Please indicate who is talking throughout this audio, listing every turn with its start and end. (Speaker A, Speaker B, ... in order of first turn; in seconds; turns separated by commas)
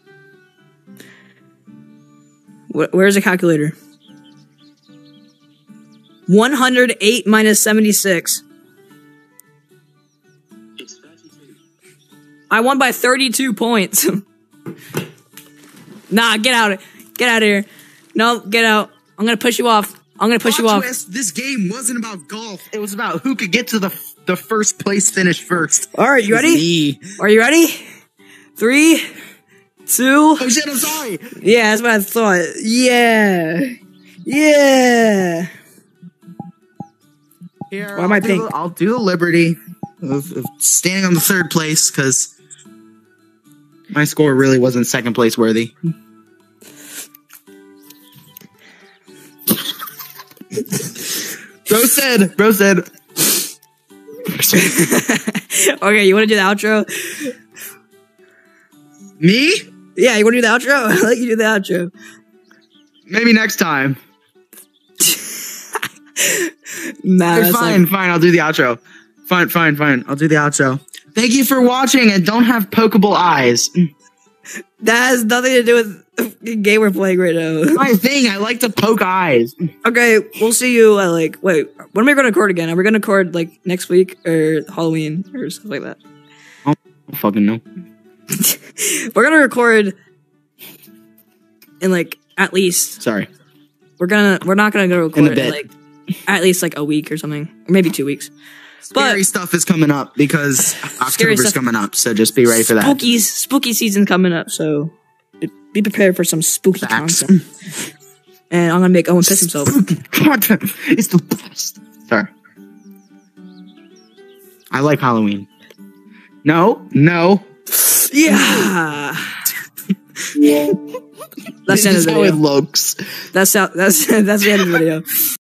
Speaker A: 2.7-3.7, Speaker A: 6.3-8.4, Speaker A: 12.5-14.2, Speaker A: 16.1-20.9, Speaker B: 20.4-27.1, Speaker A: 25.9-26.6, Speaker A: 27.2-27.8, Speaker A: 28.6-29.1, Speaker A: 29.9-30.5, Speaker B: 30.4-31.2, Speaker A: 31.4-33.7, Speaker A: 34.2-35.5, Speaker B: 37.7-42.3, Speaker A: 37.9-38.5, Speaker B: 43.9-45.7, Speaker B: 51.7-52.8, Speaker B: 54.2-54.9, Speaker A: 54.5-57.3, Speaker B: 59.2-59.6, Speaker A: 60.0-61.9, Speaker B: 63.1-64.0, Speaker A: 65.0-65.5, Speaker A: 66.2-67.8, Speaker B: 67.3-73.9, Speaker A: 74.8-77.9, Speaker B: 77.7-79.5, Speaker A: 79.8-86.0, Speaker B: 86.7-87.6, Speaker A: 88.3-90.0, Speaker A: 91.8-93.0, Speaker B: 93.0-93.3, Speaker A: 94.0-95.7, Speaker B: 95.1-95.6, Speaker A: 96.3-98.3, Speaker B: 98.9-103.1, Speaker A: 98.9-99.2, Speaker A: 101.0-101.6, Speaker A: 102.6-107.4, Speaker B: 106.8-107.5, Speaker A: 108.5-109.8, Speaker B: 109.2-112.3, Speaker B: 114.7-115.5, Speaker B: 116.4-117.5, Speaker A: 117.8-119.5, Speaker B: 118.3-118.7, Speaker B: 120.3-120.8, Speaker A: 121.7-122.4, Speaker B: 121.7-123.0, Speaker A: 123.3-125.1